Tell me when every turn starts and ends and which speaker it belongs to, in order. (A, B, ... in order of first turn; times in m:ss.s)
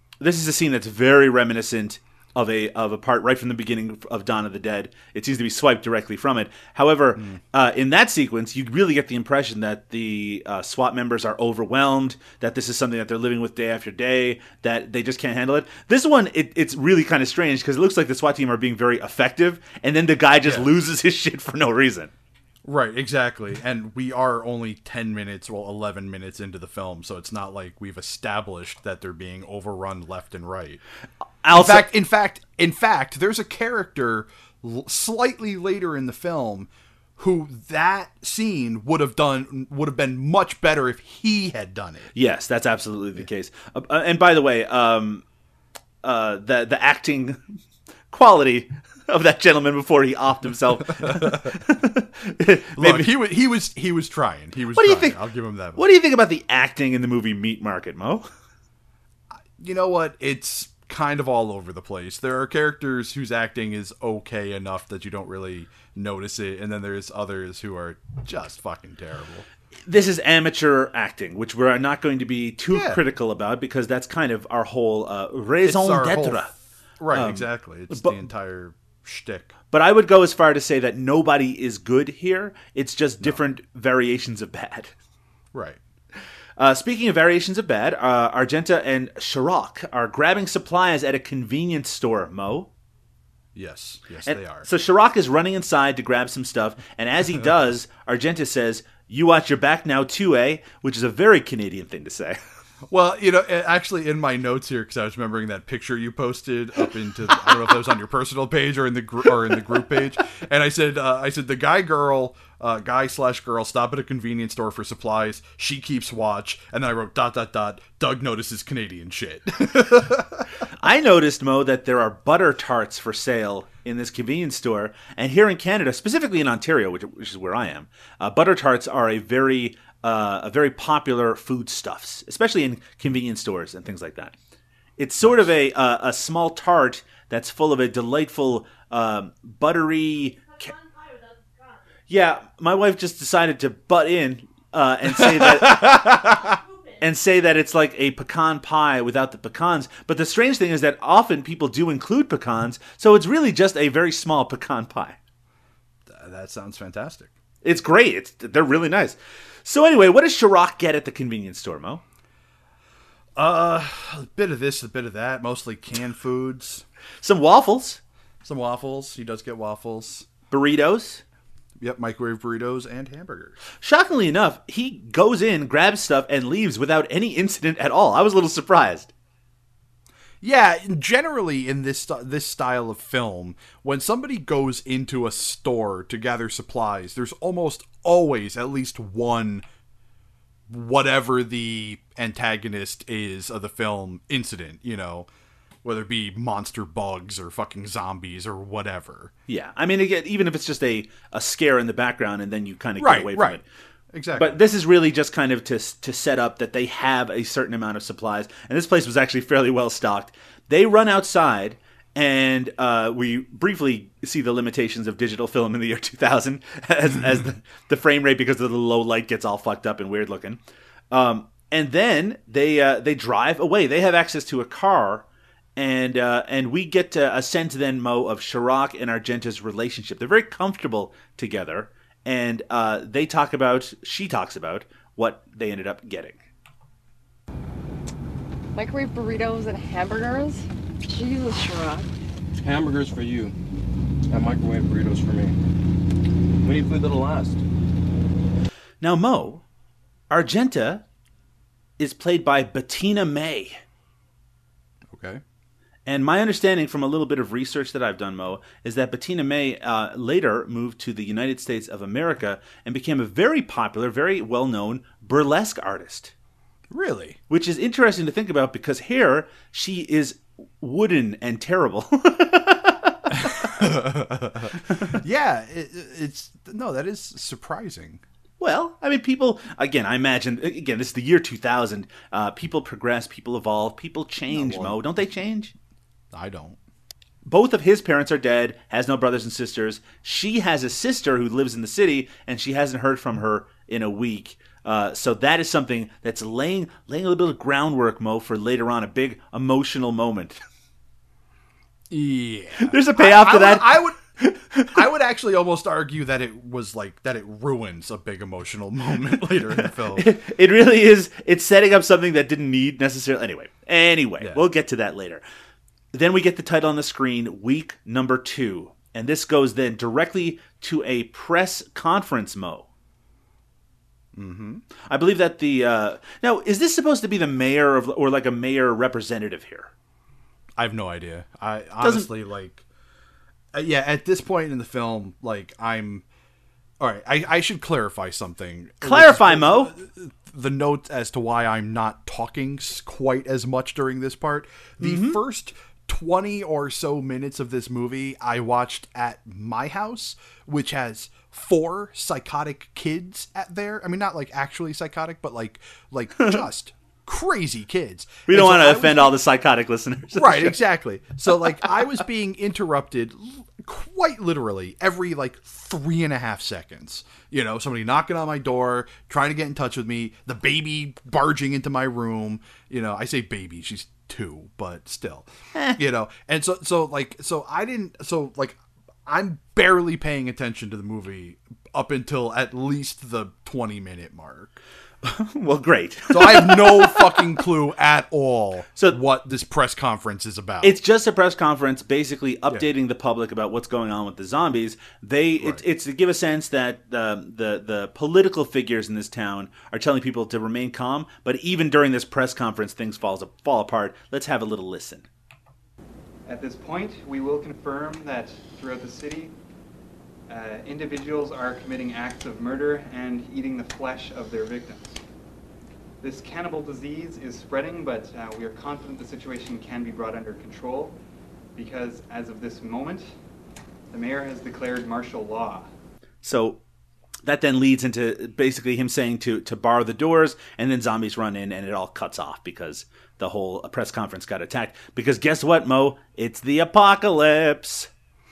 0:00.2-0:22.1 A
0:07.2-0:07.4 B
0:20.4-0:20.7 B
0:22.6-0:30.8 B
0:31.4-0:31.9 A
0:31.5-0:42.1 B
0:42.1-0:45.2 A
0:46.0-0:47.4 A
0:48.1-0:53.1 A
0:51.0-0:51.4 B
0:52.8-0:55.8 B
0:54.7-0:55.2 A
0:55.8-0:58.3 A
0:59.6-1:09.5 B
1:09.9-1:16.5 A
1:12.7-1:13.0 B
1:15.6-1:19.6 B
1:17.1-1:18.1 A
1:19.7-1:24.9 A
1:25.5-1:25.8 B
1:26.6-1:32.7 A
1:33.6-1:34.7 B
1:34.3-1:42.4 A
1:42.9-2:00.5 B
2:00.8-2:14.3 A
2:15.0-2:20.8 A
2:15.2-2:15.5 B
2:22.1-2:26.4 A
2:25.1-2:26.6 B
2:27.0-2:35.2 A
2:36.1-2:37.3 B
2:37.6-2:42.0 A
2:43.4-2:46.8 B
2:47.2-2:48.0 A
2:48.4-2:50.3 B
2:50.5-2:51.2 A
2:51.8-2:53.6 B
2:53.8-2:59.1 A
3:00.4-3:09.6 B
3:10.7-3:15.3 B
3:15.8-3:19.3 B
3:19.5-3:23.6 A
3:23.0-3:23.6 B
3:24.1-3:24.6 B
3:24.4-3:40.6 A
3:41.1-3:45.2 A
3:45.8-3:56.4 A
3:58.7-4:02.1 C
4:02.6-4:03.6 D
4:04.3-4:05.6 D
4:06.6-4:07.6 D
4:09.0-4:09.6 A
4:10.3-4:11.0 A
4:12.0-4:13.8 A
4:15.1-4:15.4 B
4:16.1-4:26.3 A
4:26.9-4:27.4 B
4:27.5-4:33.9 A
4:33.4-4:38.2 B
4:34.9-4:35.2 A
4:38.6-4:45.7 A
4:44.5-4:45.0 B
4:46.3-4:46.8 B
4:47.4-5:00.6 A
5:02.1-5:04.2 B
5:02.8-5:04.9 A
5:04.9-5:10.3 B
5:09.7-5:15.4 A
5:14.4-5:14.6 B
5:16.1-5:22.9 A
5:24.3-5:24.8 B
5:25.1-5:29.9 A
5:30.8-5:32.8 B
5:32.0-5:32.3 A
5:33.7-5:36.2 B
5:37.0-5:59.4 B
5:39.0-5:39.9 A
5:45.0-5:45.4 A
5:56.4-5:56.6 A
5:58.5-6:00.8 A
6:00.4-6:24.8 B
6:25.2-6:27.6 A
6:26.3-6:31.0 B
6:30.8-6:45.2 A
6:46.4-6:49.6 E
6:50.5-6:55.2 E
6:56.2-7:01.2 E
7:01.8-7:03.3 E
7:04.1-7:05.9 E
7:06.4-7:06.8 A
7:07.4-7:18.1 A